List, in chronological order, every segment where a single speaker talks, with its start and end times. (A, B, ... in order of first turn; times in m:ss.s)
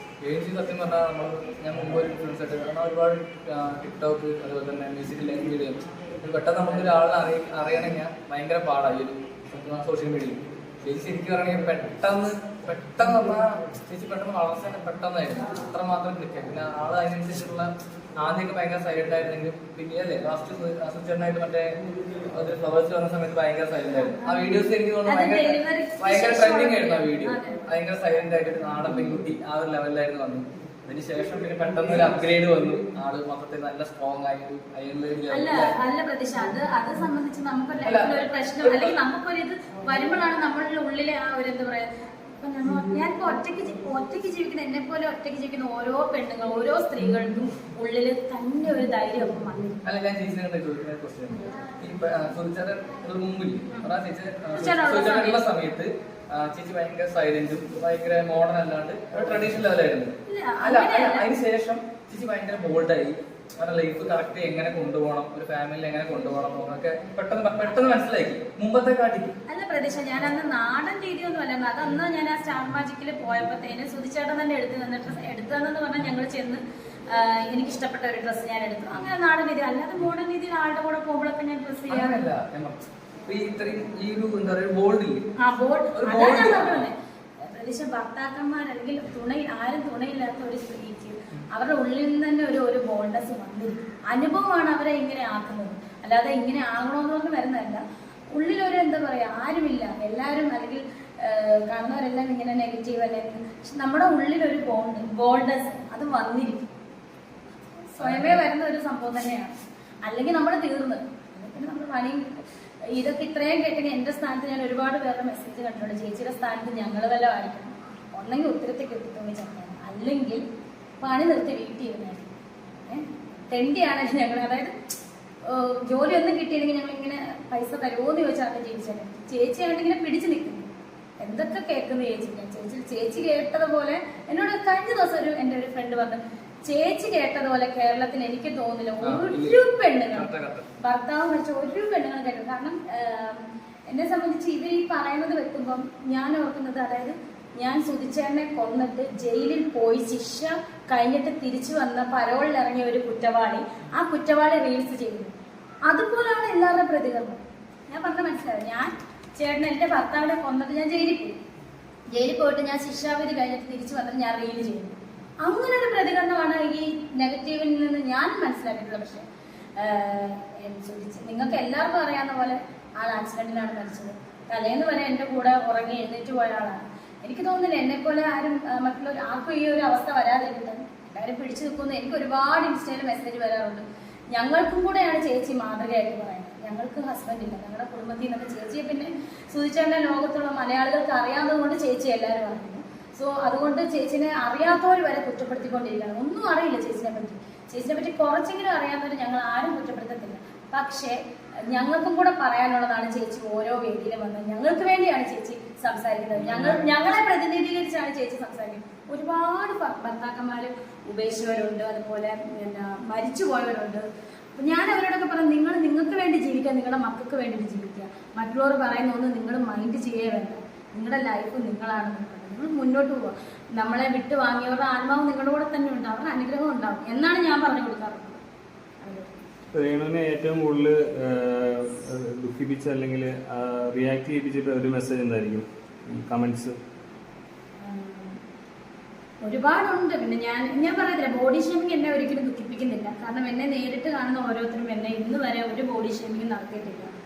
0:00.2-0:35.7 A
0:24.1-0:27.6 B
0:35.3-0:49.8 B
0:37.8-0:39.0 A
0:49.8-1:09.4 A
0:54.5-0:55.5 B
1:00.3-1:01.3 B
1:09.5-1:22.3 B
1:21.9-1:25.3 A
1:25.4-1:46.7 B
1:25.9-1:26.9 A
1:47.9-1:49.5 B
1:48.0-1:48.4 A
1:50.0-2:00.4 B
2:01.0-2:02.3 B
2:02.9-2:04.8 B
2:05.4-2:10.7 B
2:11.2-2:20.3 B
2:19.0-2:20.7 A
2:20.8-2:35.3 B
2:35.9-2:41.4 B
2:42.1-2:49.2 B
2:49.8-3:21.2 B
3:21.7-3:34.1 B
3:26.3-3:26.8 A
3:34.6-3:48.4 B
3:49.0-3:49.3 B
3:49.7-3:56.8 C
3:57.8-3:58.4 B
3:59.4-4:07.1 B